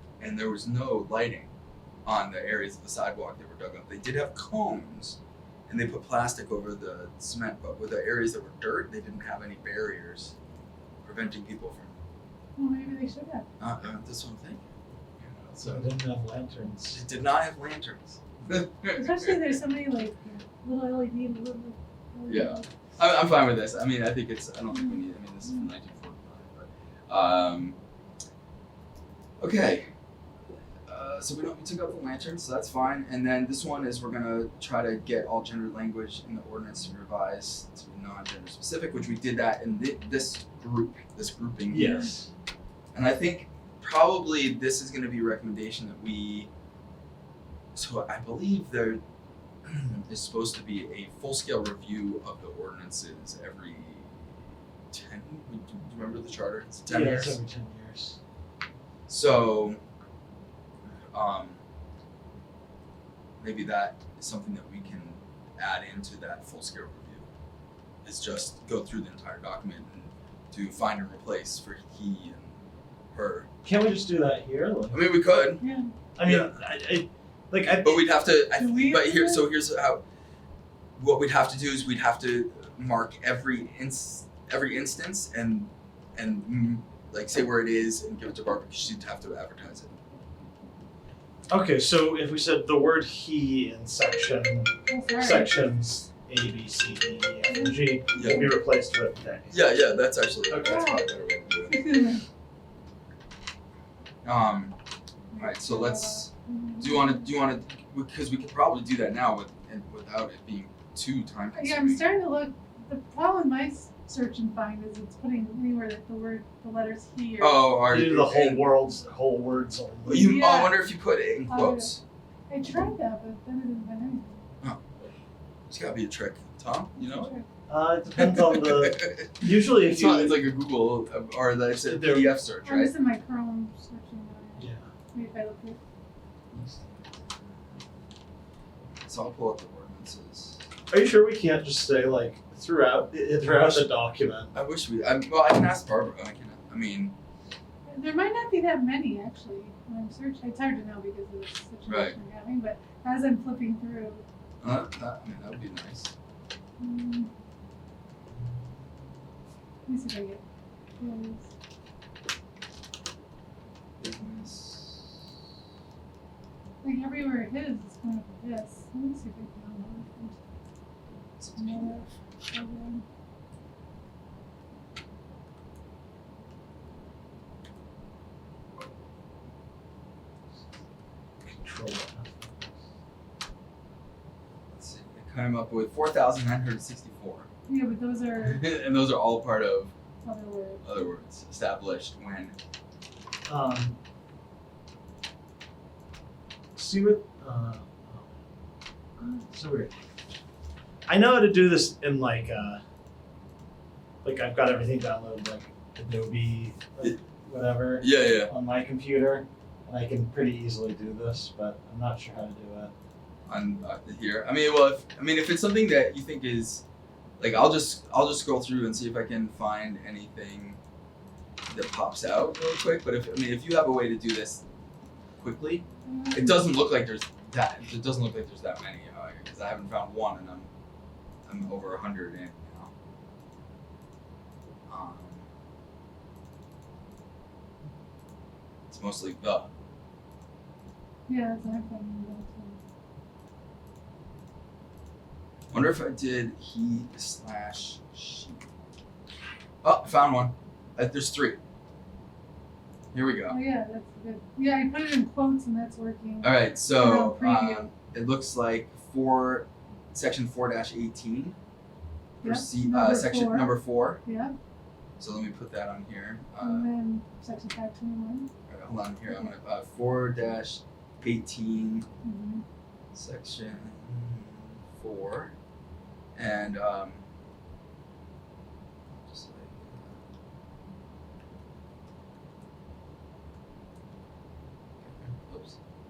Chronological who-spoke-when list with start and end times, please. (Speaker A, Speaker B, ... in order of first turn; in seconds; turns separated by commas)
Speaker A: 0.2-1.5, Speaker A: 2.1-10.3, Speaker A: 11.0-12.0, Speaker B: 12.6-13.5, Speaker A: 13.6-14.7, Speaker A: 15.2-15.9, Speaker C: 15.6-17.0, Speaker A: 16.9-19.5, Speaker B: 18.9-22.7, Speaker A: 22.3-27.8, Speaker A: 29.4-29.9, Speaker A: 30.9-42.1, Speaker C: 41.7-42.3, Speaker A: 42.9-46.5, Speaker A: 47.8-49.0, Speaker A: 49.6-54.4, Speaker A: 54.9-57.4, Speaker C: 56.9-58.2, Speaker A: 59.1-59.8, Speaker A: 61.1-61.6, Speaker A: 63.4-67.3, Speaker A: 68.0-72.6, Speaker A: 73.1-73.5, Speaker C: 73.6-75.1, Speaker A: 74.9-75.6, Speaker B: 75.6-75.9, Speaker C: 76.2-78.1, Speaker A: 76.2-76.6, Speaker A: 77.8-80.0, Speaker B: 78.6-79.5, Speaker A: 81.0-90.0, Speaker C: 91.5-99.7, Speaker B: 94.9-95.5, Speaker B: 97.5-98.5, Speaker A: 98.2-98.5, Speaker A: 99.5-102.2, Speaker C: 100.5-100.8, Speaker B: 100.6-102.2, Speaker A: 104.2-104.8, Speaker B: 105.3-107.2, Speaker A: 105.4-112.1, Speaker B: 111.5-117.8, Speaker A: 117.4-118.7, Speaker C: 117.9-120.5, Speaker A: 120.0-122.0, Speaker B: 120.1-120.8, Speaker B: 121.5-121.9, Speaker B: 122.5-124.4, Speaker A: 124.6-125.0, Speaker A: 125.7-127.3, Speaker B: 127.1-127.5, Speaker C: 127.7-130.4, Speaker A: 128.2-132.9, Speaker C: 131.9-132.4, Speaker B: 132.6-135.8, Speaker C: 134.6-134.9, Speaker A: 139.0-140.6, Speaker C: 140.9-144.5, Speaker A: 144.5-147.2, Speaker B: 147.9-154.2, Speaker A: 151.9-152.2, Speaker A: 154.6-156.1, Speaker B: 156.8-157.3, Speaker B: 159.9-160.4, Speaker B: 161.0-161.5, Speaker A: 164.0-165.1, Speaker B: 166.8-170.4, Speaker A: 171.4-172.2, Speaker B: 171.6-173.0, Speaker C: 181.4-182.8, Speaker A: 184.7-187.5, Speaker B: 187.7-188.7, Speaker A: 188.4-189.9, Speaker B: 190.2-190.8, Speaker A: 190.8-192.6, Speaker C: 193.5-194.0, Speaker C: 196.8-198.4, Speaker C: 199.5-199.9, Speaker C: 201.1-202.8, Speaker C: 204.2-212.9, Speaker A: 208.0-208.5, Speaker A: 213.5-216.8, Speaker A: 217.4-220.8, Speaker A: 221.7-224.6, Speaker A: 225.4-230.7, Speaker B: 226.1-226.7, Speaker A: 231.5-232.9, Speaker A: 234.9-235.5, Speaker A: 238.9-239.7, Speaker B: 241.3-242.8, Speaker A: 245.7-248.6, Speaker A: 249.8-251.6, Speaker A: 253.1-253.6, Speaker B: 253.5-257.9, Speaker A: 256.4-261.6, Speaker A: 262.4-264.2, Speaker B: 262.4-264.6, Speaker A: 265.2-266.9, Speaker B: 266.6-268.5, Speaker A: 268.7-272.1, Speaker B: 272.2-272.6, Speaker A: 273.1-275.5, Speaker A: 276.4-277.2, Speaker A: 279.1-280.2, Speaker A: 285.0-285.8